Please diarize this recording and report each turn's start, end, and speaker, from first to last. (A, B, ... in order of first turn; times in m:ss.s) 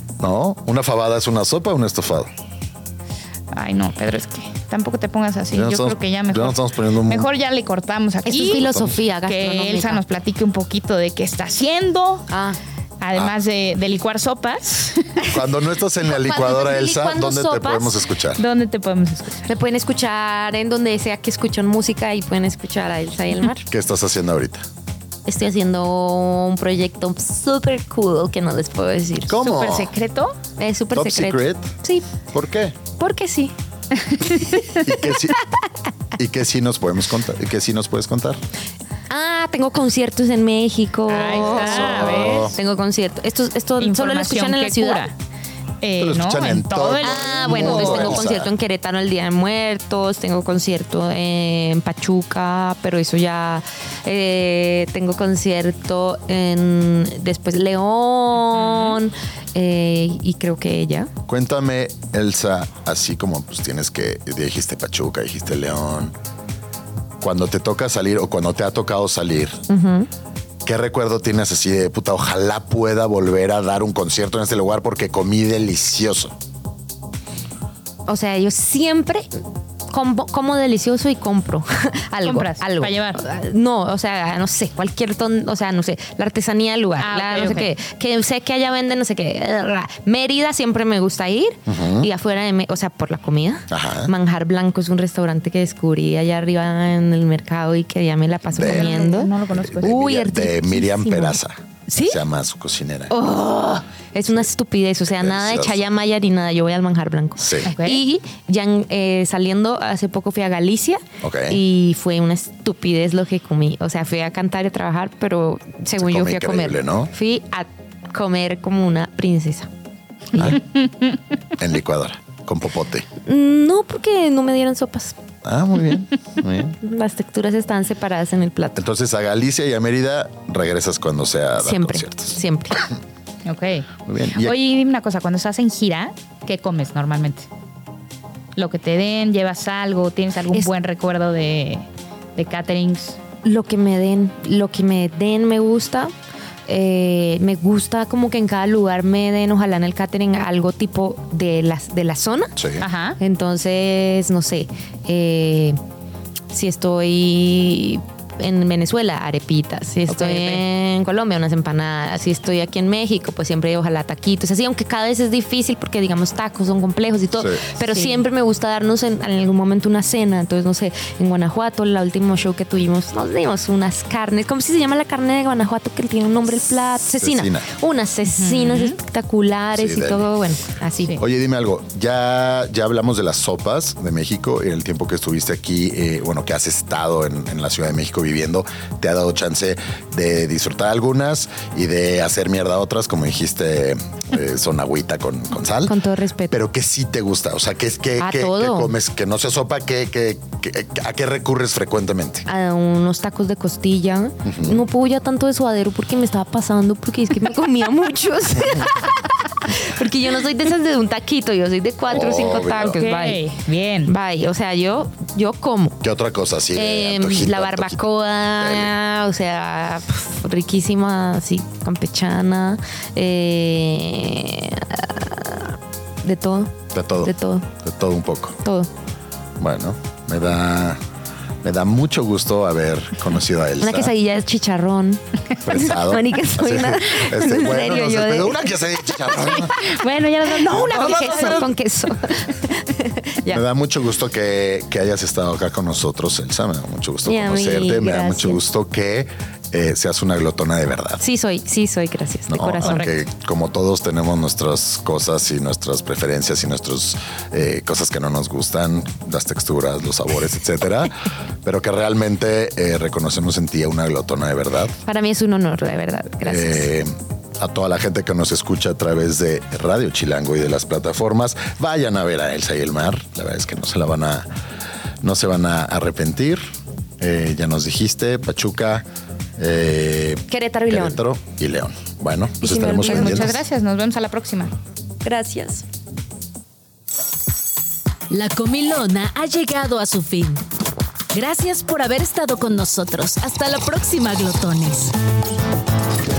0:00.2-0:02.3 A
0:03.5-0:08.7 B
0:05.5-0:07.3 A
0:08.2-0:10.0 C
0:08.6-0:09.0 A
0:09.2-0:12.2 B
0:12.3-0:12.6 C
0:13.0-0:15.3 B
0:15.3-0:18.4 A
0:16.1-0:18.0 C
0:18.4-0:19.4 B
0:19.4-0:23.6 C
0:23.7-0:24.6 A
0:25.2-0:29.4 C
0:29.3-0:29.9 A
0:29.4-0:30.4 B
0:30.6-0:32.2 C
0:30.9-0:31.8 A
0:32.3-0:32.8 A
0:33.0-0:33.5 C
0:34.0-0:34.6 B
0:34.3-0:35.6 C
0:34.8-0:35.4 A
0:36.2-0:38.4 A
0:39.1-0:45.1 C
0:41.1-0:42.5 B
0:41.4-0:42.6 A
0:43.8-0:45.1 B
0:45.8-0:48.2 B
0:46.0-0:48.5 A
0:47.0-1:01.1 C
0:58.4-0:59.0 B
1:01.3-1:06.1 A
1:07.2-1:09.6 A
1:09.7-1:10.1 C
1:10.6-1:16.3 A
1:18.1-1:19.3 C
1:19.9-1:41.4 C
1:22.2-1:23.2 B
1:27.0-1:27.7 B
1:31.7-1:32.1 A
1:33.7-1:34.1 A
1:38.5-1:43.1 A
1:38.6-1:39.9 B
1:41.9-1:42.2 B
1:43.1-1:59.7 C
1:45.1-1:45.8 A
1:47.4-1:47.7 A
1:47.6-1:48.0 B
1:51.2-1:51.6 A
1:56.0-1:57.1 A
2:00.3-2:00.6 C
2:00.4-2:00.6 A
2:01.6-2:03.1 A
2:03.2-2:05.2 C
2:05.4-2:06.8 A
2:06.8-2:08.8 C
2:08.8-2:12.8 A
2:11.6-2:12.8 C
2:13.4-2:17.5 B
2:14.0-2:14.6 A
2:18.6-2:23.2 B
2:23.4-2:26.1 C
2:26.7-2:32.6 C
2:32.6-2:32.8 A
2:32.8-2:33.2 B
2:33.2-2:35.8 C
2:36.5-3:01.2 C
2:40.1-2:40.6 B
2:47.4-2:47.6 A
2:47.9-2:48.2 B
2:57.2-2:57.7 A
2:58.3-2:59.0 B
2:59.7-3:00.3 A
3:01.2-3:16.0 A
3:15.8-3:16.5 C
3:16.5-3:22.4 A
3:18.2-3:18.9 C
3:22.5-3:33.4 C
3:24.4-3:24.8 A
3:32.1-3:33.0 A
3:32.6-3:34.1 B
3:34.1-3:36.0 C
3:36.0-3:38.0 A
3:36.7-3:47.7 C
3:38.6-3:38.9 A
3:46.9-3:48.6 A
3:48.6-3:48.9 C
3:49.6-3:51.0 A
3:51.6-3:54.1 A
3:53.8-3:58.7 C
3:55.6-3:59.8 A
3:59.2-4:03.6 C
3:59.8-4:01.3 B
4:00.7-4:01.7 A
4:03.5-4:11.2 A
4:07.2-4:08.6 C
4:11.2-4:13.2 C
4:12.5-4:25.0 A
4:12.8-4:13.1 B
4:25.0-4:26.9 C
4:26.4-4:34.5 A
4:35.2-4:36.6 A
4:37.2-4:39.0 A
4:39.6-4:43.6 A
4:40.5-4:41.2 C
4:42.6-4:43.6 C
4:42.8-4:44.7 B
4:45.2-4:45.8 C
4:48.3-4:50.6 D
4:51.3-4:55.1 D